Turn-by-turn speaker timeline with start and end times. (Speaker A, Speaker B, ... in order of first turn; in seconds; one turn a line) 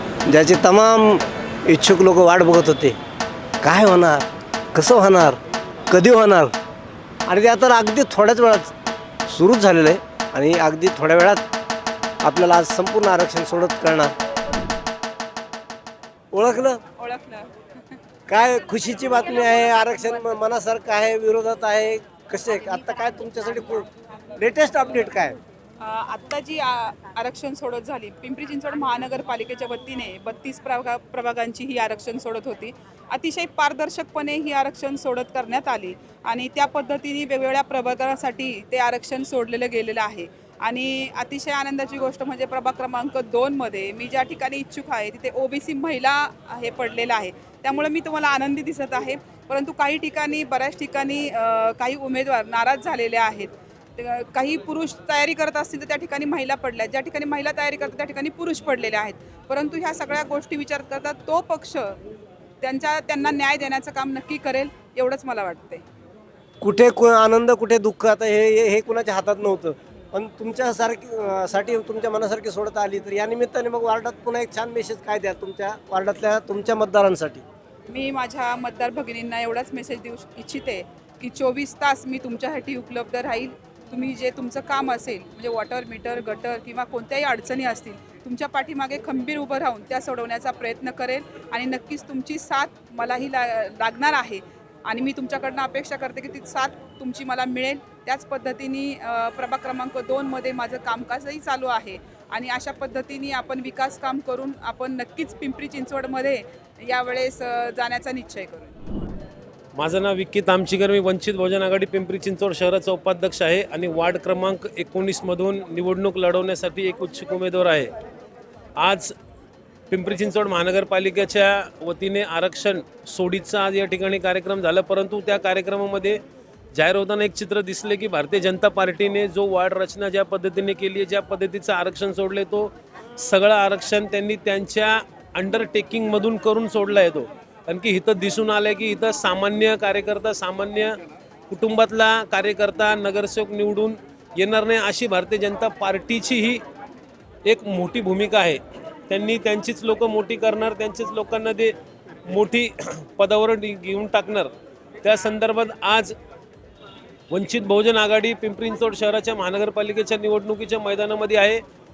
Speaker A: 0.3-3.0
Speaker A: 3.6-5.4
Speaker A: 5.9-6.5
Speaker A: 7.3-8.7
Speaker A: 9.3-11.4
Speaker A: 12.2-14.1
Speaker A: 16.3-16.8
Speaker B: 17.0-17.5
Speaker A: 18.3-23.9
Speaker A: 24.4-25.4
Speaker B: 25.8-62.0
Speaker B: 62.6-65.8
Speaker A: 66.6-77.4
Speaker B: 77.9-108.7
Speaker C: 109.8-117.9
Speaker C: 118.8-119.1
Speaker C: 119.9-126.2
Speaker C: 126.7-141.0
Speaker C: 141.5-146.6
Speaker C: 147.4-151.7
Speaker C: 152.3-156.1
Speaker C: 157.3-161.6